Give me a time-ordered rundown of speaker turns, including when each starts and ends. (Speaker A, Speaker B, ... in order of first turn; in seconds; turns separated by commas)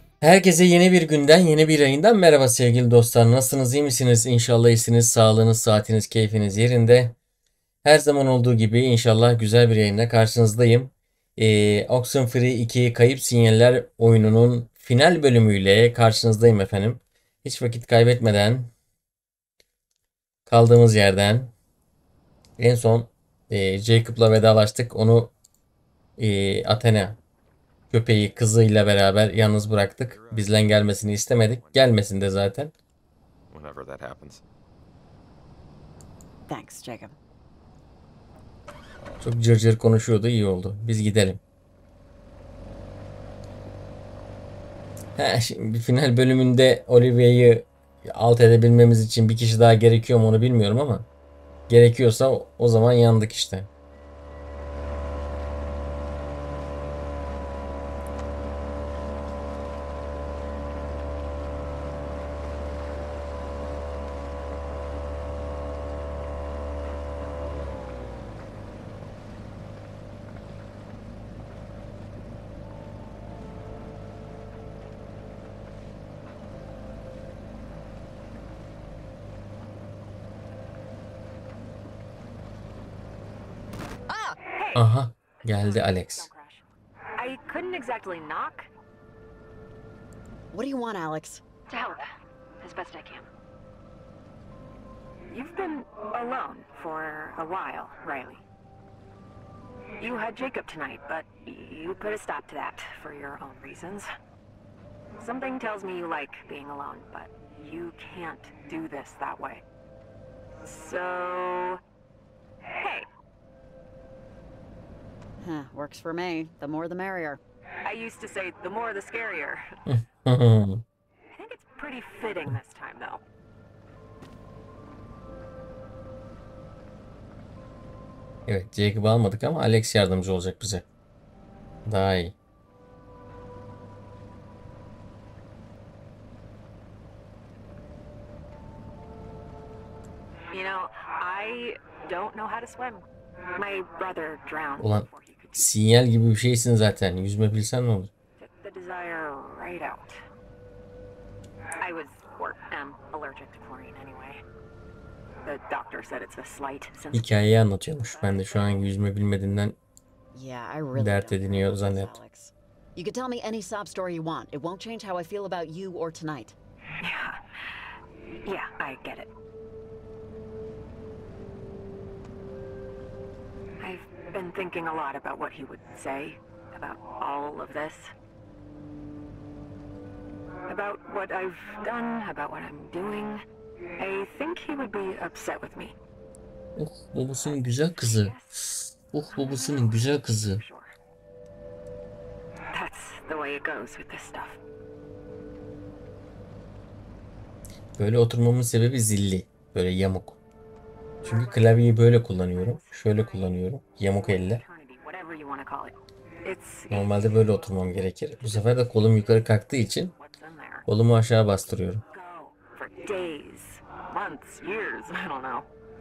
Speaker A: 0.2-7.2, Speaker A: 7.8-18.7, Speaker A: 20.5-21.5, Speaker A: 22.6-25.3, Speaker A: 26.2-27.2, Speaker A: 27.9-32.7, Speaker B: 29.8-32.1, Speaker B: 33.5-34.4, Speaker C: 36.5-37.1, Speaker A: 39.2-41.4, Speaker A: 45.2-51.1, Speaker A: 51.7-53.7, Speaker C: 84.1-84.4, Speaker D: 84.5-88.7, Speaker A: 84.7-86.3, Speaker C: 90.5-91.4, Speaker D: 91.7-92.0, Speaker D: 92.6-93.3, Speaker D: 95.3-98.4, Speaker D: 100.0-104.1, Speaker D: 105.2-109.6, Speaker D: 110.6-111.8, Speaker D: 112.8-113.1, Speaker C: 115.4-117.4, Speaker D: 117.8-119.7, Speaker A: 119.8-120.8, Speaker D: 121.3-123.2, Speaker A: 128.4-130.8, Speaker A: 131.8-132.3, Speaker D: 140.5-143.0, Speaker D: 143.6-145.7, Speaker A: 144.8-148.1, Speaker D: 148.4-150.2, Speaker D: 151.8-154.4, Speaker D: 155.4-158.9, Speaker A: 157.1-159.8, Speaker C: 160.3-166.6, Speaker A: 160.9-162.2, Speaker D: 167.0-169.3, Speaker D: 173.8-178.1, Speaker D: 180.7-183.4, Speaker D: 184.0-185.9, Speaker A: 186.8-190.6, Speaker D: 187.5-188.7, Speaker D: 189.3-190.9, Speaker D: 192.7-194.6, Speaker A: 198.0-200.4, Speaker A: 201.2-204.6, Speaker D: 201.2-207.3, Speaker A: 206.9-210.1, Speaker D: 210.1-210.9, Speaker A: 210.8-212.0, Speaker D: 212.1-215.7